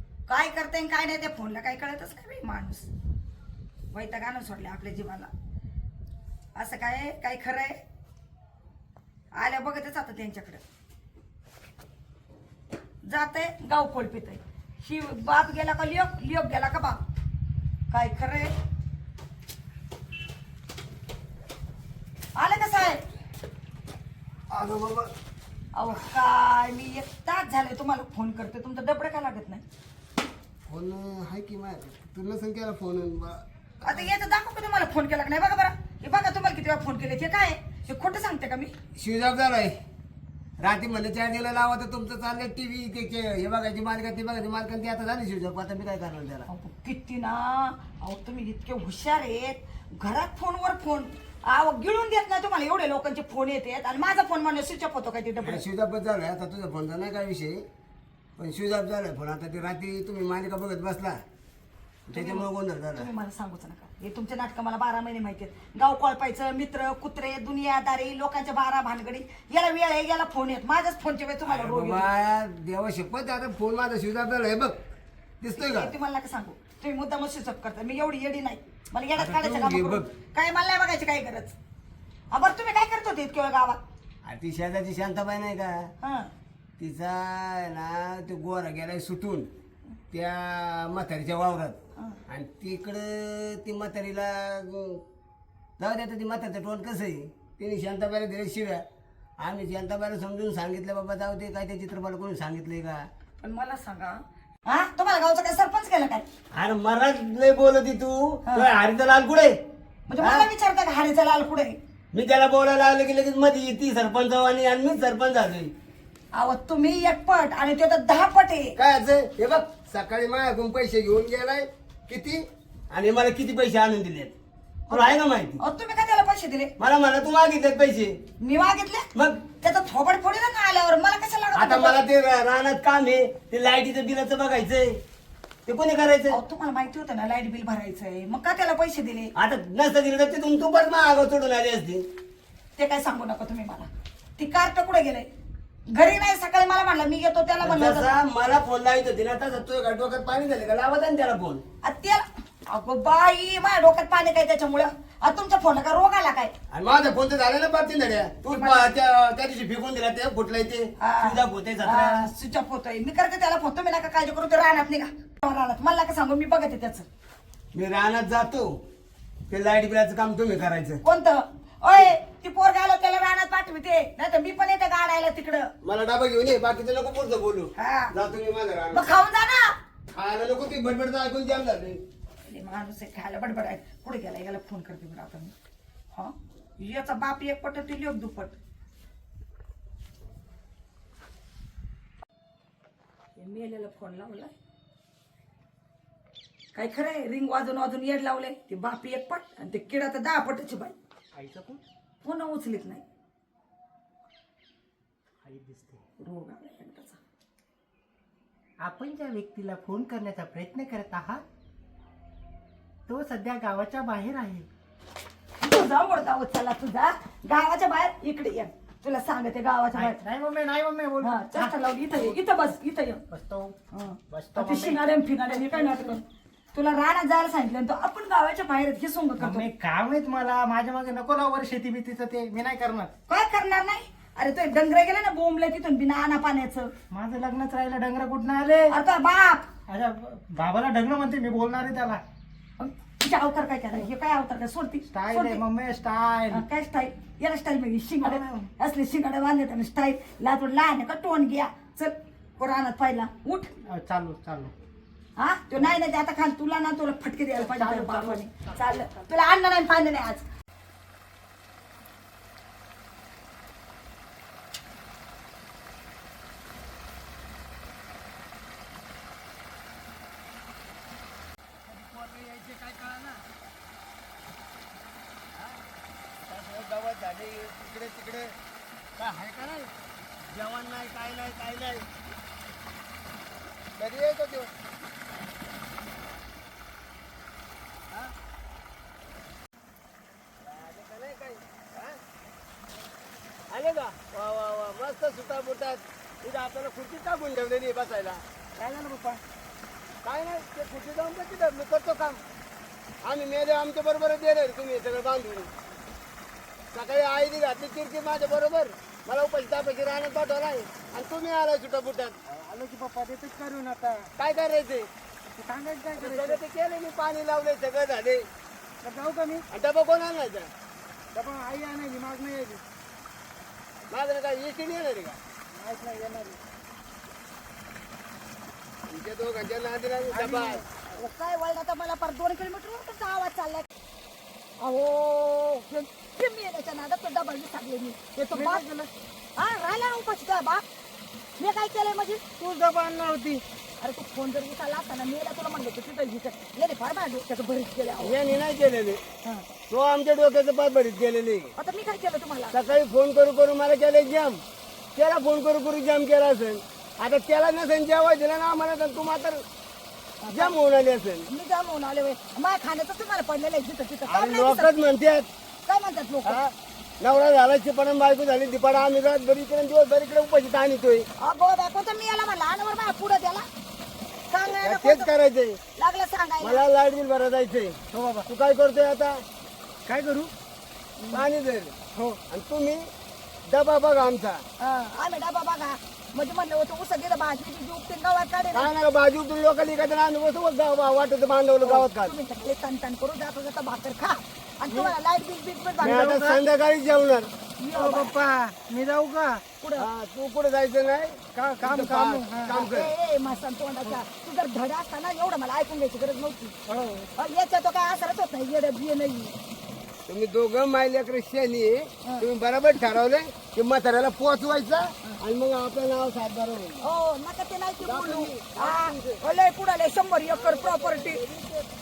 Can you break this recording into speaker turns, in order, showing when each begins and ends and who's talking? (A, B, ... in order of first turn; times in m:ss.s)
0:00.3-0:02.9 A
0:03.9-0:05.3 A
0:06.6-0:07.8 A
0:09.4-0:10.6 A
0:13.0-0:17.0 A
0:17.9-0:18.5 A
0:22.4-0:23.0 A
0:24.5-0:25.1 B
0:25.8-0:29.6 A
0:30.7-0:34.1 B
0:33.8-0:38.7 A
0:39.0-0:39.8 B
0:40.6-0:46.5 B
0:46.5-0:55.6 A
0:55.4-0:57.6 B
0:58.4-1:01.2 B
1:02.1-1:03.1 B
1:02.1-1:12.1 A
1:11.4-1:14.8 B
1:15.4-1:15.9 B
1:15.6-1:21.6 A
1:19.2-1:20.1 B
1:22.3-1:23.8 A
1:24.2-1:25.9 B
1:26.0-1:26.3 A
1:26.8-1:29.5 B
1:30.1-1:31.8 B
1:32.3-1:35.0 B
1:35.8-1:38.8 B
1:39.4-1:43.0 B
1:43.4-1:46.3 A
1:46.6-1:49.5 B
1:50.1-1:51.8 A
1:50.2-1:50.5 B
1:52.1-1:55.7 B
1:56.3-1:58.7 A
1:58.8-2:04.4 B
2:04.9-2:05.6 B
2:04.9-2:06.7 A
2:06.8-2:08.2 B
2:08.4-2:09.0 A
2:09.2-2:09.4 B
2:09.6-2:12.0 A
2:11.5-2:15.0 B
2:15.7-2:16.4 B
2:16.3-2:19.3 A
2:19.4-2:22.0 B
2:22.8-2:25.3 A
2:25.9-2:28.1 A
2:27.6-2:31.6 B
2:31.8-2:36.5 A
2:36.7-2:42.3 B
2:38.5-2:38.9 A
2:41.0-2:47.1 A
2:47.7-2:48.7 B
2:49.5-2:51.0 B
2:51.0-2:55.7 A
2:55.8-2:59.0 B
2:57.8-2:58.1 A
2:58.9-2:59.7 A
3:00.1-3:02.0 B
3:02.5-3:05.5 A
3:06.1-3:08.6 A
3:13.4-3:14.5 A
3:16.7-3:21.0 A
3:21.4-3:21.8 C
3:22.2-3:23.0 A
3:25.4-3:26.0 C
3:26.2-3:27.2 A
3:28.8-3:31.4 C
3:33.1-3:34.7 C
3:35.6-3:40.2 A
3:39.9-3:41.8 C
3:41.2-3:43.2 A
3:43.3-3:43.8 C
3:43.9-3:49.7 A
3:44.3-3:46.1 C
3:49.4-3:53.1 C
3:53.3-3:56.9 A
3:57.1-3:59.0 C
3:58.9-3:59.7 A
3:59.9-4:02.2 C
4:02.8-4:05.6 A
4:05.1-4:06.6 C
4:06.5-4:13.7 A
4:08.2-4:08.7 C
4:13.9-4:14.7 C
4:15.4-4:20.4 A
4:17.6-4:18.4 C
4:31.9-4:33.4 B
4:35.5-4:35.8 B
4:36.5-4:38.6 B
4:39.2-4:39.9 B
4:40.5-4:42.1 B
4:44.0-4:44.7 B
4:50.6-4:52.2 B
4:53.7-4:58.4 B
4:58.8-4:59.4 C
5:00.2-5:02.4 B
5:03.2-5:05.7 B
5:06.9-5:12.4 B
5:12.5-5:14.3 C
5:14.4-5:15.1 B
5:15.5-5:16.6 C
5:16.2-5:18.4 B
5:19.0-5:19.7 C
5:19.7-5:20.7 B
5:21.3-5:22.8 C
5:24.1-5:25.4 B
5:25.7-5:26.6 C
5:29.1-5:30.8 B
5:30.3-5:30.9 C
5:31.1-5:33.9 A
5:34.8-5:38.8 A
5:38.5-5:39.1 C
5:39.6-5:40.8 A
5:41.6-5:42.4 A
5:42.6-5:43.6 C
5:44.0-5:48.4 A
5:48.2-5:49.2 B
5:49.9-5:51.7 B
5:51.8-5:52.8 A
5:52.7-5:54.6 B
5:55.2-5:59.6 B
6:00.4-6:00.7 A
6:00.5-6:01.5 B
6:01.5-6:04.9 A
6:04.3-6:05.5 B
6:05.9-6:06.6 A
6:06.4-6:11.3 B
6:11.4-6:13.7 A
6:14.5-6:15.3 A
6:14.8-6:15.8 B
6:16.0-6:16.8 A
6:16.6-6:19.4 B
6:18.1-6:18.5 C
6:20.1-6:20.5 C
6:21.2-6:21.4 A
6:21.3-6:22.0 B
6:22.1-6:22.4 C
6:22.5-6:23.1 B
6:23.7-6:24.6 B
6:24.8-6:28.9 A
6:28.7-6:32.4 B
6:31.8-6:36.5 A
6:34.9-6:35.1 C
6:36.0-6:37.5 B
6:36.1-6:36.6 C
6:37.8-6:38.3 A
6:37.9-6:39.6 C
6:39.8-6:40.1 A
6:40.0-6:43.1 B
6:41.6-6:42.8 C
6:42.7-6:46.8 A
6:46.9-6:47.3 C
6:47.4-6:49.6 A
6:50.3-6:57.0 B
6:57.0-7:01.4 A
6:58.0-6:59.4 B
7:00.5-7:01.9 B